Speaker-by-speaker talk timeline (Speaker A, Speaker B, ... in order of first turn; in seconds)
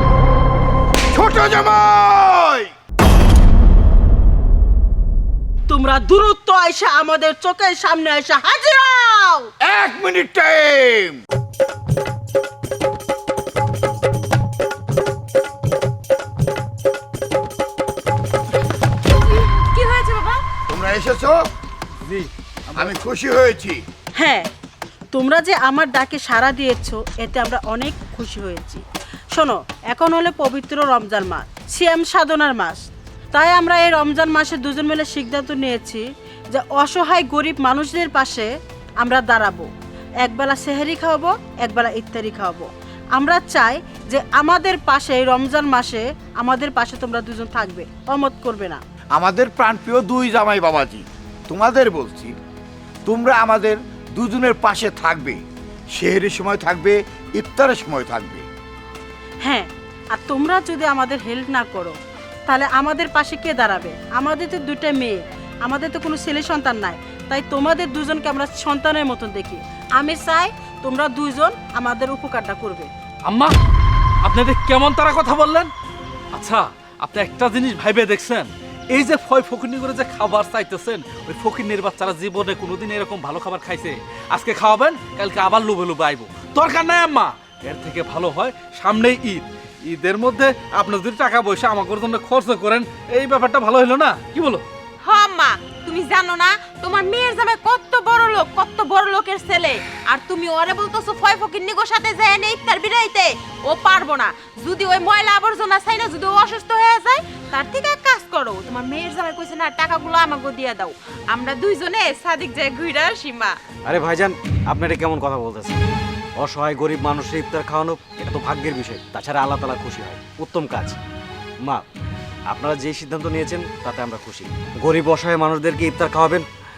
Speaker A: 1.1-2.7, 9.6-11.2, 20.7-21.4, 22.8-23.8, 49.1-52.3, 53.0-55.4, 55.9-58.5
Speaker B: 5.7-9.5, 24.1-24.5, 25.1-39.7, 40.2-48.8, 59.4-72.9
Speaker C: 19.1-20.4, 95.0-113.6
Speaker D: 22.1-22.9, 73.3-73.6, 74.2-75.7, 76.3-94.6
Speaker E: 113.9-115.8, 116.4-121.0, 122.5-126.5